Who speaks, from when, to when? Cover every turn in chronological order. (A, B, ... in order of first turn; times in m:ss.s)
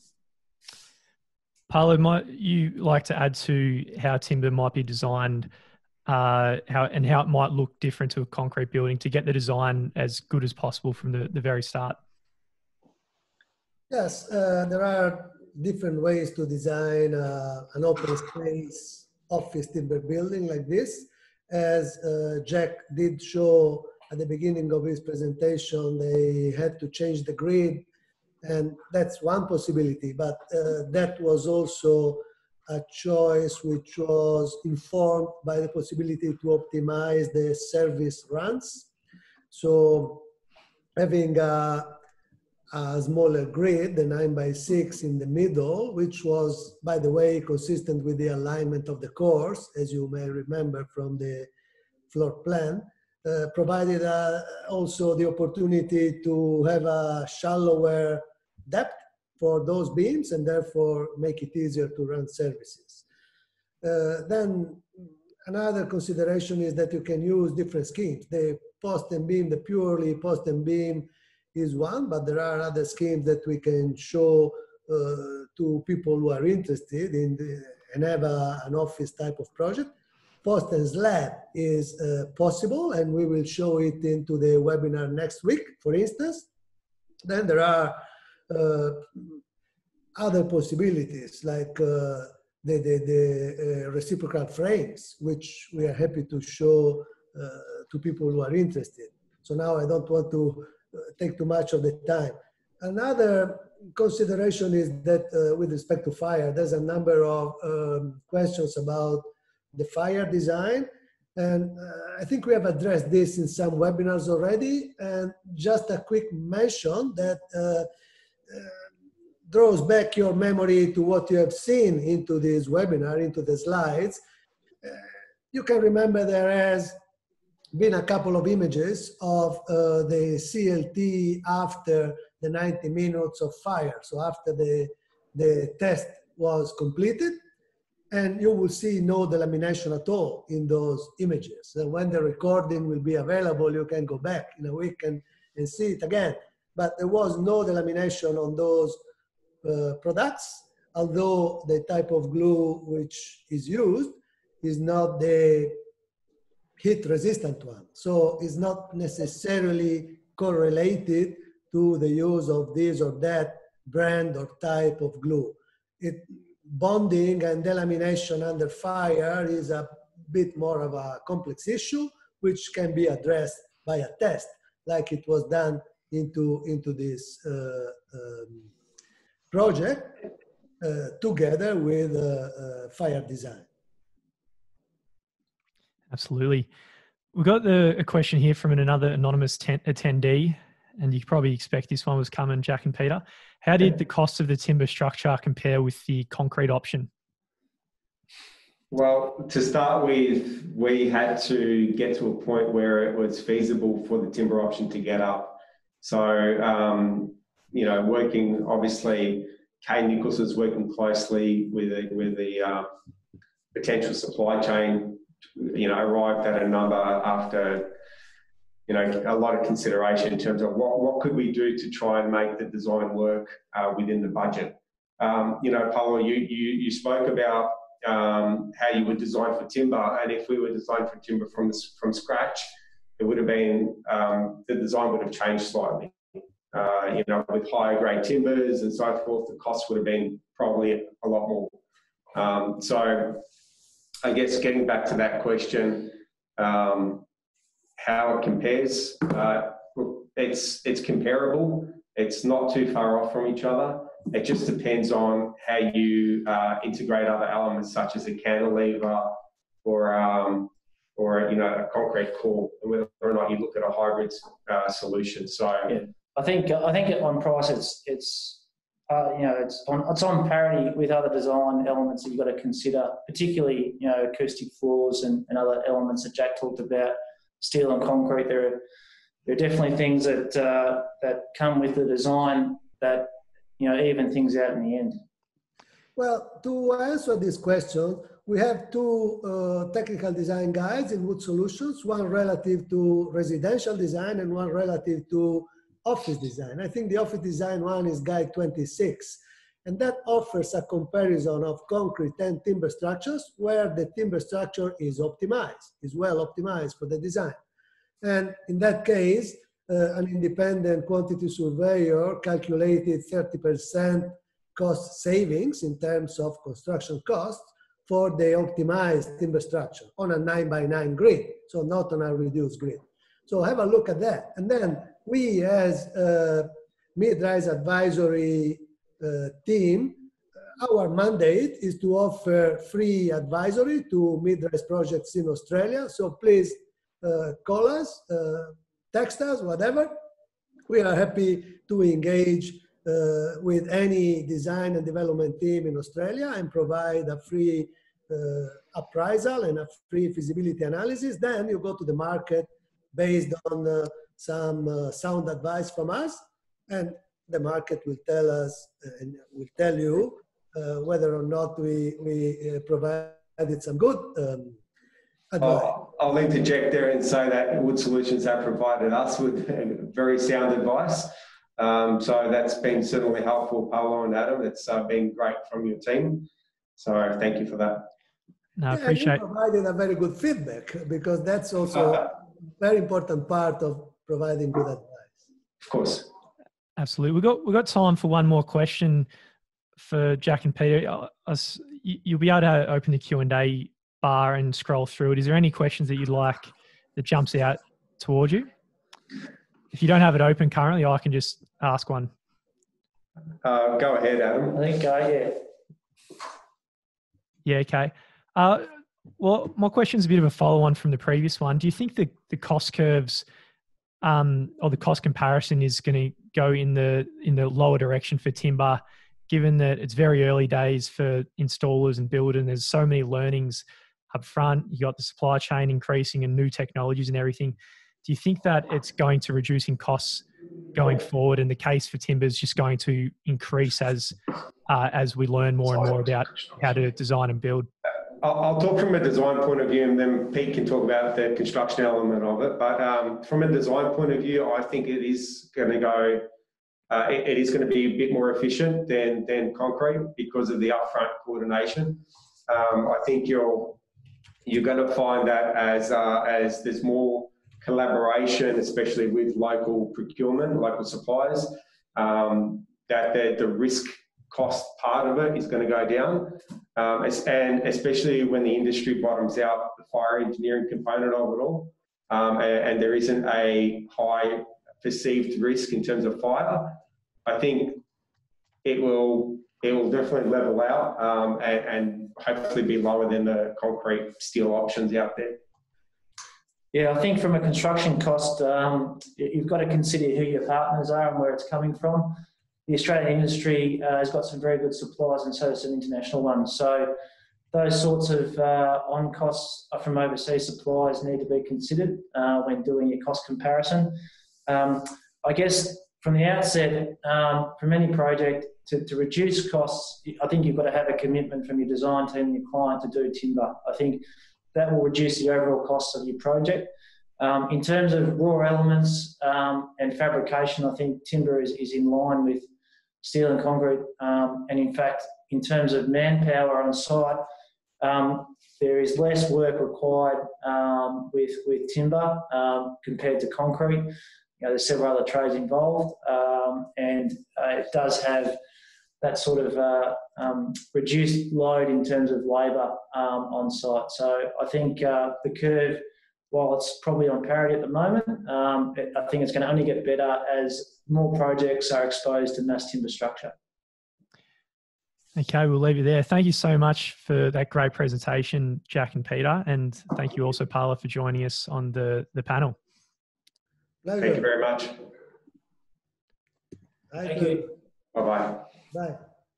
0:01.7-0:05.5 A
0:06.1-0:12.0 A
0:13.9-0:27.9 B
0:28.4-0:38.9 B
0:39.5-0:40.3 B
0:41.0-0:42.0 B
0:42.7-0:51.5 B
0:52.1-1:03.0 B
1:03.8-1:04.8 B
1:05.4-1:19.9 B
1:20.4-1:26.4 B
1:27.2-1:28.0 B
1:28.5-1:29.3 B
1:30.1-1:57.9 B
1:58.5-1:58.8 B
1:59.5-2:04.2 B
2:04.8-2:07.0 B
2:07.7-2:17.4 B
2:18.1-2:29.0 B
2:29.6-2:35.8 B
2:36.8-2:58.7 B
2:59.5-3:00.3 B
3:00.8-3:03.6 B
3:06.1-3:06.7 A
3:07.3-3:17.1 A
3:18.9-3:32.9 C
3:33.7-3:37.9 C
3:38.9-4:01.8 C
4:02.3-4:03.4 C
4:04.2-4:07.2 C
4:08.0-4:26.0 C
4:25.9-4:38.8 D
4:39.4-4:45.2 D
4:46.2-5:07.6 B
5:08.2-5:30.3 B
5:30.8-5:40.1 B
5:40.9-6:04.8 B
6:05.5-6:05.9 B
6:05.6-6:18.1 C
6:18.8-6:19.4 A
6:18.9-6:25.3 B
6:25.8-6:26.3 C
6:27.0-6:29.3 A
6:30.0-6:38.7 A
6:39.9-6:42.3 A
6:43.6-6:44.8 C
6:44.7-6:45.6 D
6:47.6-6:53.4 A
6:54.2-7:14.4 A
7:14.9-7:17.9 A
7:18.4-7:26.5 C
7:27.1-7:34.0 C
7:34.6-7:58.0 C
7:58.8-8:05.6 C
8:06.9-8:17.2 D
8:17.7-8:42.7 D
8:43.2-8:47.5 D
8:48.0-8:58.6 D
8:59.2-9:13.5 D
9:15.4-9:22.8 A
9:24.0-9:24.5 B
9:24.2-9:25.0 C
9:27.1-9:27.7 B
9:28.1-9:28.6 C
9:28.9-9:29.2 B